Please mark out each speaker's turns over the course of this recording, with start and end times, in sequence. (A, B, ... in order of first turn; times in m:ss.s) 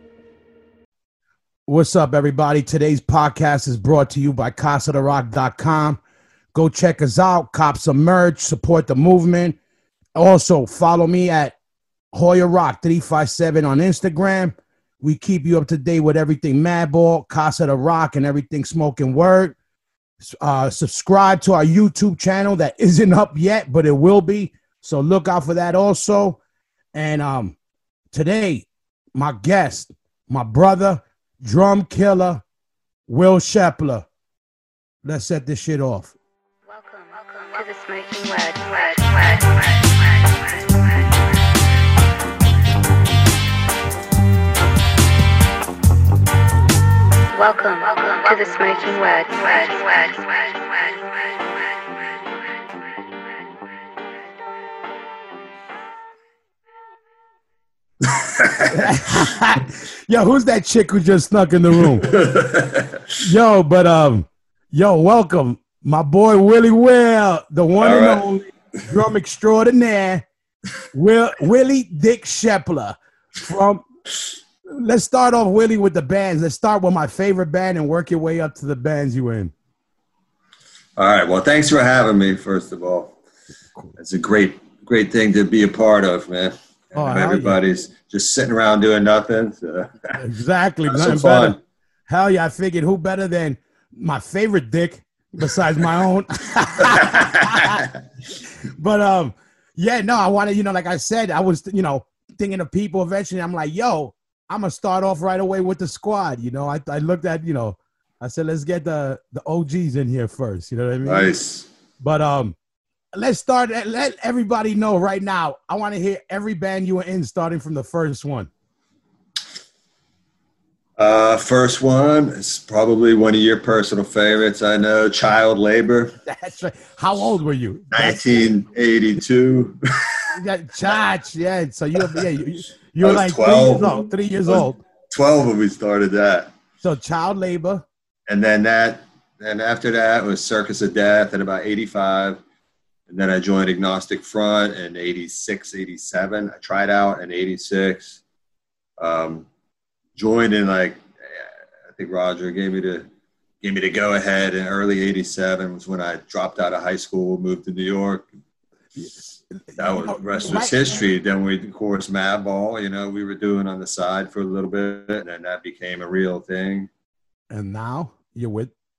0:01.7-0:06.0 A
0:06.5-0:09.6 A
0:10.2-0:11.6 A
0:12.1-0:19.6 A
0:20.2-0:26.4 A
0:26.9-0:27.6 A
0:28.1-0:32.4 A
0:33.1-0:34.0 A
0:35.0-0:36.1 A
0:36.7-0:41.0 B
0:47.3-0:51.0 B
0:58.0-0:58.8 C
0:58.7-1:02.1 A
1:02.0-1:03.1 C
1:03.2-1:10.2 A
1:07.8-1:08.2 C
1:10.9-1:13.8 A
1:14.7-1:19.5 A
1:21.0-1:23.2 C
1:24.0-1:30.2 C
1:26.9-1:27.6 A
1:30.2-1:37.9 A
1:30.9-1:31.6 C
1:36.8-1:37.9 C
1:38.6-1:51.3 A
1:51.0-1:51.7 C
1:52.0-1:52.6 A
1:53.1-1:58.5 A
2:01.0-2:06.2 C
2:06.2-2:08.2 A
2:07.9-2:10.3 C
2:10.3-2:14.8 A
2:13.0-2:16.5 C
2:16.8-2:17.8 A
2:18.3-2:22.4 C
2:23.1-2:28.2 C
2:29.0-2:29.5 C
2:30.2-2:33.1 C
2:33.6-2:38.3 C
2:39.0-2:40.8 A
2:39.8-2:46.9 C
2:47.5-2:48.7 A